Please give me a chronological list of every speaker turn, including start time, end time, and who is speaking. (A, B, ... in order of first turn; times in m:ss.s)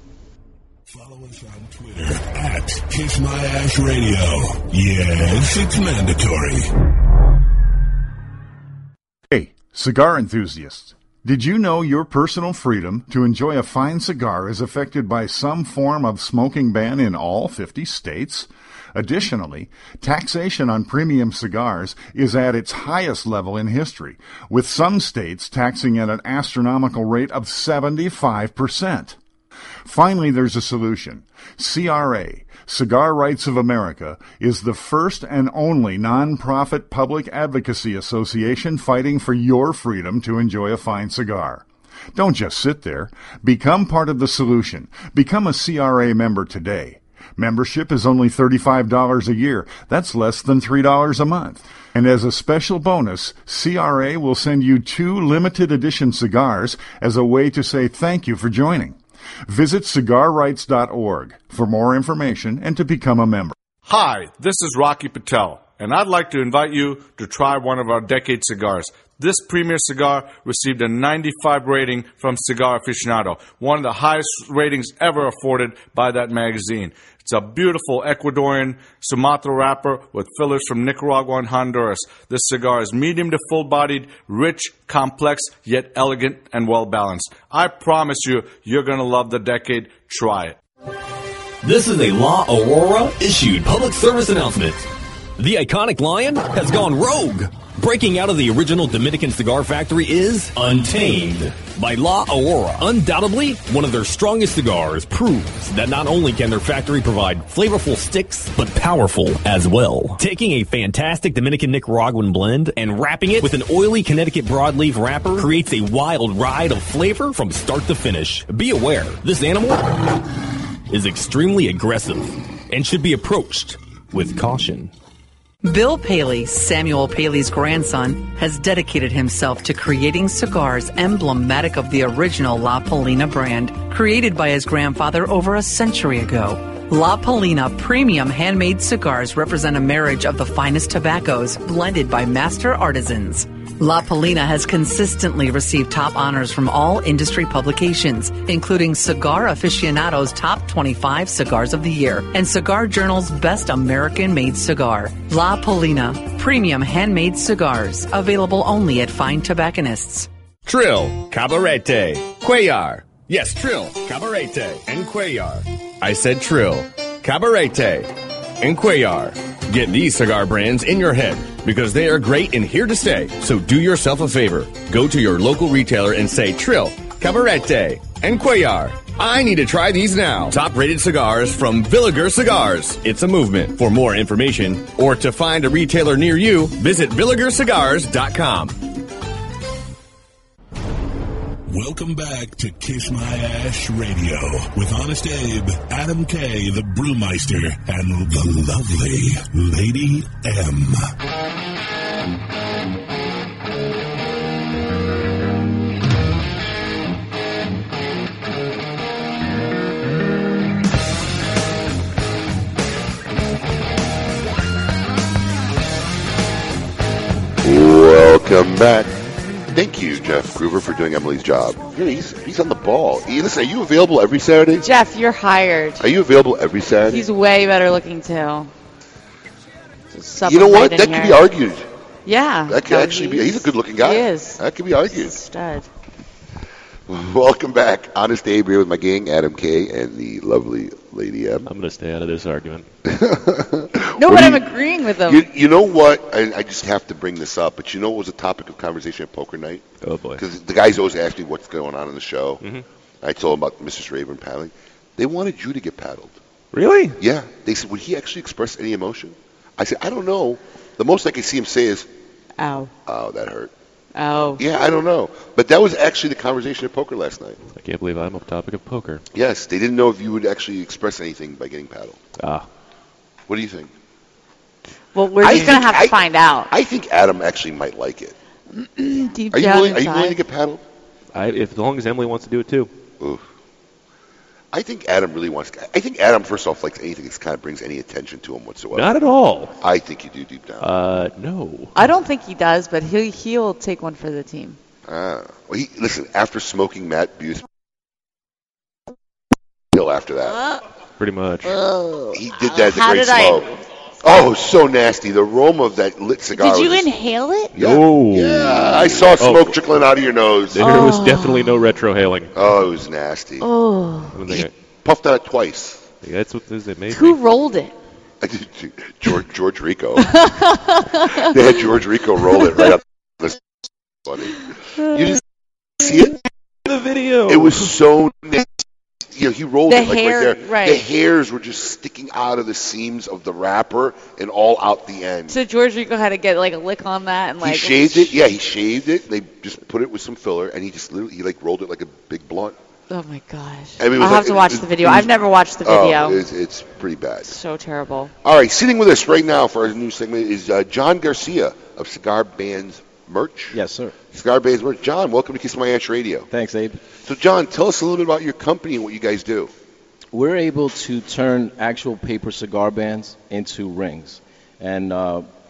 0:00.9-0:06.7 A
0:09.3-0:29.2 B
0:29.8-1:03.5 B
1:03.8-1:30.6 C
1:31.6-1:34.9 D
1:35.4-2:00.1 D
2:00.9-2:04.9 D
2:05.6-2:40.3 E
2:40.7-3:08.8 F
3:11.7-3:21.0 A
3:37.6-3:39.1 G
3:39.7-3:44.9 G
3:44.8-3:46.1 H
3:46.0-3:47.3 G
3:47.1-3:48.7 H
3:50.1-3:51.5 H
3:50.4-3:51.9 G
3:52.3-3:55.9 H
3:52.7-3:55.4 G
3:57.1-4:01.7 G
4:01.7-4:02.9 I
4:03.0-4:09.8 G
4:04.2-4:05.4 H
4:10.0-4:10.4 I
4:10.4-4:12.6 G
4:13.2-4:16.4 G
4:16.7-4:17.2 I
4:17.2-4:22.1 G
4:22.6-4:22.9 H
4:23.1-4:23.7 G
4:24.2-4:24.6 H
4:24.4-4:27.6 G
4:27.8-4:29.2 I
4:29.3-4:32.2 G
4:32.4-4:32.7 I
4:33.5-4:33.9 G
4:35.1-4:36.7 H
4:35.4-4:38.4 G
4:38.8-4:40.4 H
4:39.5-4:40.8 G
4:41.3-4:42.9 I
4:44.7-4:49.1 G
4:48.9-4:49.7 I
4:49.8-4:50.9 G
4:50.8-4:51.9 I
4:52.0-4:54.8 H
4:55.1-4:57.6 G
4:59.9-5:00.6 G
5:01.2-5:01.8 I
5:01.7-5:03.8 H
5:02.3-5:03.7 G
5:04.2-5:07.1 G
5:06.6-5:07.8 H
5:07.7-5:11.0 G
5:07.8-5:09.8 I
5:10.7-5:12.5 I
5:10.8-5:11.7 H
5:12.5-5:13.7 G
5:13.6-5:14.4 H
5:14.3-5:14.7 I
5:14.5-5:16.0 G
5:16.2-5:17.4 I
5:17.1-5:18.0 H
5:18.4-5:20.3 G
5:20.3-5:21.5 H
5:21.4-5:23.6 G
5:24.2-5:25.4 G
5:26.0-5:26.4 G
5:26.9-5:27.9 I
5:27.5-5:35.6 G
5:29.9-5:31.0 H
5:35.5-5:38.4 H
5:37.6-5:42.8 G
5:43.1-5:46.4 H
5:44.0-5:45.3 G
5:45.8-5:47.6 G
5:47.5-5:48.3 H
5:48.4-5:53.8 G
5:53.7-5:54.2 J
5:54.3-5:56.5 G
5:56.5-5:57.0 J
5:57.2-5:59.7 G
6:00.3-6:05.5 J